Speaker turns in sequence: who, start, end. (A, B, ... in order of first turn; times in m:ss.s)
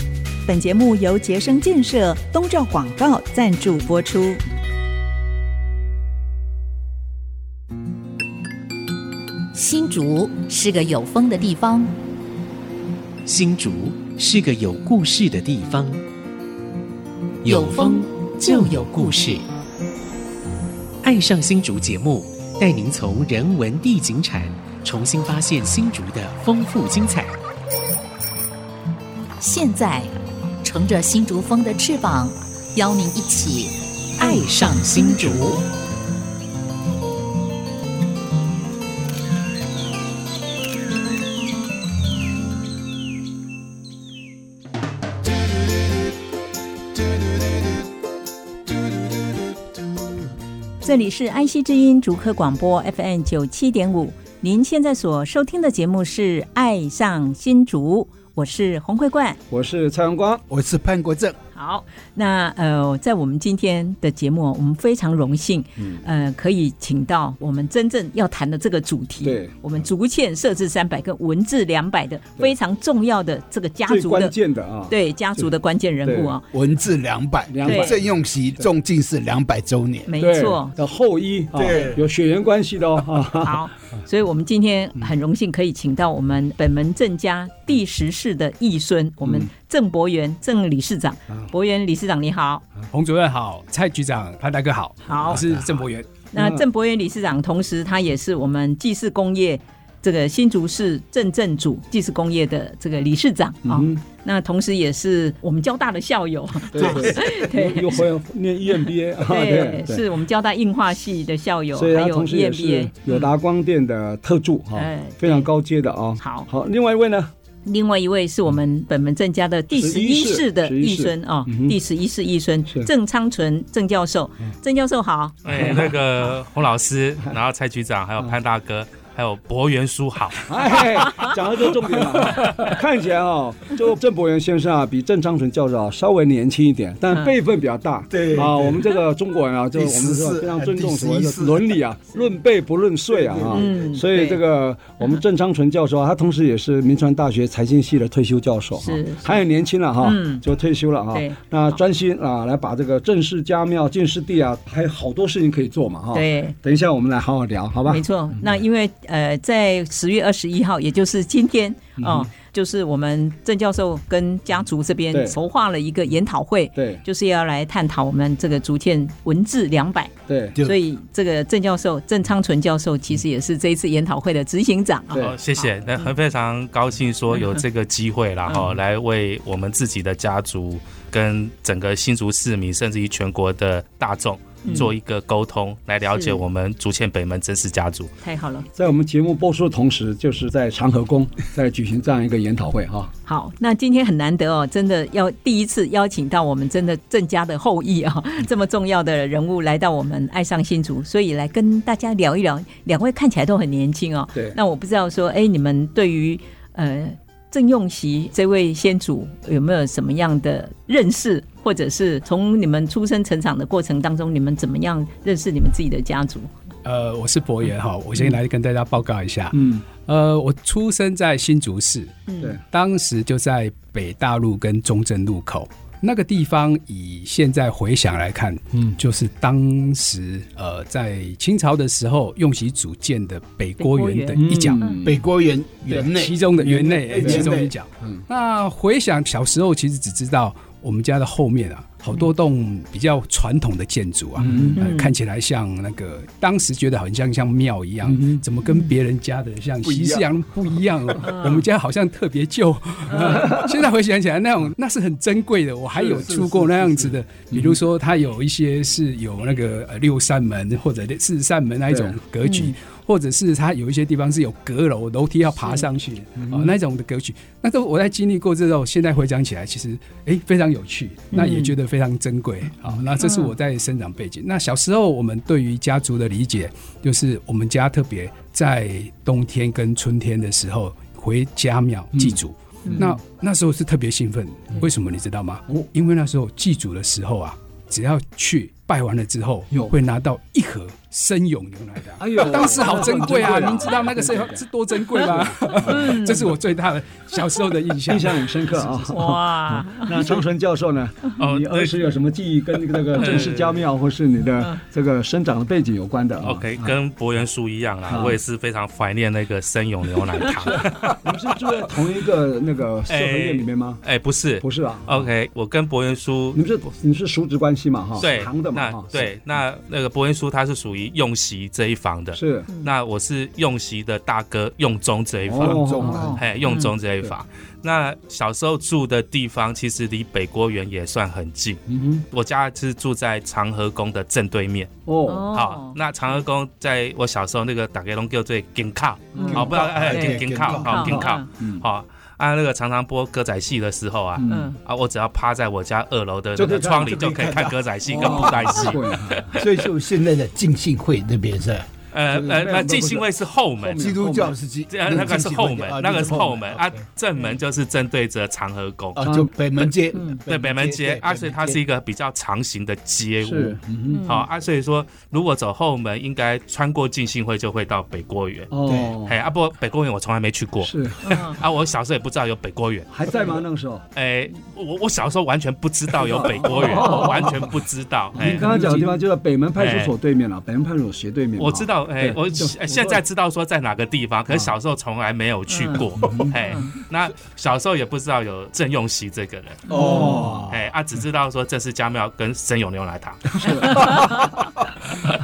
0:00.4-0:04.4 A
0:09.5-0:11.9 B
0:13.2-0:16.0 C
0:17.4-0:19.4 C
0:17.4-0:19.4 B
0:21.0-0:27.4 C
0:29.4-0:30.1 B
0:30.6-0:35.6 B
0:34.2-0:35.5 C
0:50.8-0:59.4 D
0:59.5-1:00.4 E
1:00.5-1:01.4 F
1:01.5-1:14.3 D
1:05.8-1:06.0 E
1:09.2-1:09.5 E
1:13.9-1:15.5 E
1:14.9-1:16.4 D
1:16.0-1:16.4 E
1:16.5-1:20.1 F
1:17.5-1:18.0 E
1:17.6-1:18.0 D
1:20.1-1:20.8 D
1:20.2-1:23.6 E
1:21.5-1:22.0 F
1:23.4-1:32.6 D
1:29.2-1:29.5 E
1:32.9-1:36.1 G
1:35.0-1:35.4 D
1:36.3-1:48.0 D
1:36.4-1:36.6 E
1:43.6-1:44.0 E
1:46.7-1:50.1 E
1:46.8-1:47.4 F
1:48.7-1:53.3 D
1:51.7-1:57.3 E
1:54.7-1:55.5 D
1:56.2-1:56.5 D
1:57.6-2:05.9 D
1:59.7-2:01.8 E
2:05.4-2:11.2 H
2:10.4-2:38.0 E
2:12.3-2:12.7 H
2:18.1-2:18.9 F
2:19.7-2:21.8 F
2:23.1-2:24.0 F
2:23.5-2:24.4 D
2:28.8-2:29.4 D
2:30.0-2:30.4 D
2:31.1-2:31.8 D
2:36.1-2:36.6 D
2:37.8-2:56.1 D
2:42.0-2:42.3 E
2:45.1-2:45.4 E
2:46.7-2:47.0 E
2:50.3-2:50.6 E
2:55.1-2:55.4 E
2:55.1-3:08.1 H
2:57.3-2:57.6 D
3:04.6-3:04.9 D
3:06.1-3:06.4 D
3:08.2-3:08.7 D
3:08.8-3:13.1 E
3:13.3-3:36.5 D
3:36.8-3:54.9 G
3:39.5-3:39.8 E
3:42.3-3:42.6 D
3:53.8-3:55.0 D
3:54.3-3:55.2 E
3:55.0-3:57.7 F
3:55.9-4:59.0 G
3:56.6-3:58.2 E
4:04.4-4:04.8 E
4:04.8-4:05.1 D
4:08.1-4:08.4 E
4:09.8-4:10.2 F
4:11.2-4:11.6 D
4:13.1-4:13.4 D
4:13.2-4:13.6 E
4:16.0-4:17.7 E
4:21.9-4:22.2 E
4:22.4-4:22.7 D
4:26.4-4:26.7 E
4:31.3-4:31.7 D
4:33.2-4:33.5 D
4:42.2-4:43.2 E
4:42.8-4:43.1 D
4:52.2-4:54.6 E
4:55.2-4:56.4 E
4:55.9-4:56.5 D
4:58.1-5:06.9 E
4:59.1-5:00.3 D
5:01.4-5:02.1 H
5:03.2-5:03.9 H
5:06.4-5:11.9 H
5:08.1-5:08.4 E
5:10.8-5:14.0 E
5:13.1-5:16.6 H
5:14.6-5:15.3 E
5:16.5-5:19.3 E
5:18.2-5:34.9 H
5:22.3-5:22.7 E
5:25.4-5:26.4 E
5:25.5-5:26.4 F
5:26.0-5:26.9 D
5:31.9-5:32.2 E
5:35.0-5:35.5 E
5:35.2-5:36.0 D
5:35.5-5:49.9 H
5:39.3-5:39.7 E
5:39.3-5:41.4 D
5:39.5-5:41.2 F
5:40.9-5:41.8 E
5:44.4-5:44.7 E
5:44.5-5:44.8 D
5:46.6-5:47.2 E
5:46.9-5:48.8 F
5:48.1-5:49.6 E
5:49.6-5:51.9 F
5:52.1-5:54.2 H
5:52.3-5:54.5 E
5:54.0-5:57.0 F
5:54.9-6:00.0 H
5:59.2-6:01.8 F
6:00.1-6:00.4 D
6:00.5-6:08.7 H
6:03.4-6:04.2 E
6:04.1-6:04.4 D
6:08.7-6:09.3 E
6:08.9-6:09.2 F
6:09.2-6:13.1 H
6:10.8-6:11.2 E
6:11.2-6:11.6 D
6:13.1-6:14.0 E
6:14.1-6:19.0 H
6:16.2-6:17.7 E
6:17.0-6:17.3 D
6:18.3-6:23.2 E
6:19.8-6:20.1 H
6:21.6-6:30.2 H
6:25.7-6:26.0 D
6:26.2-6:26.5 E
6:26.5-6:26.9 D
6:29.9-6:30.5 D
6:29.9-6:30.8 E
6:30.7-6:34.2 H
6:33.5-6:34.5 E
6:34.0-6:34.4 D
6:34.6-6:34.8 F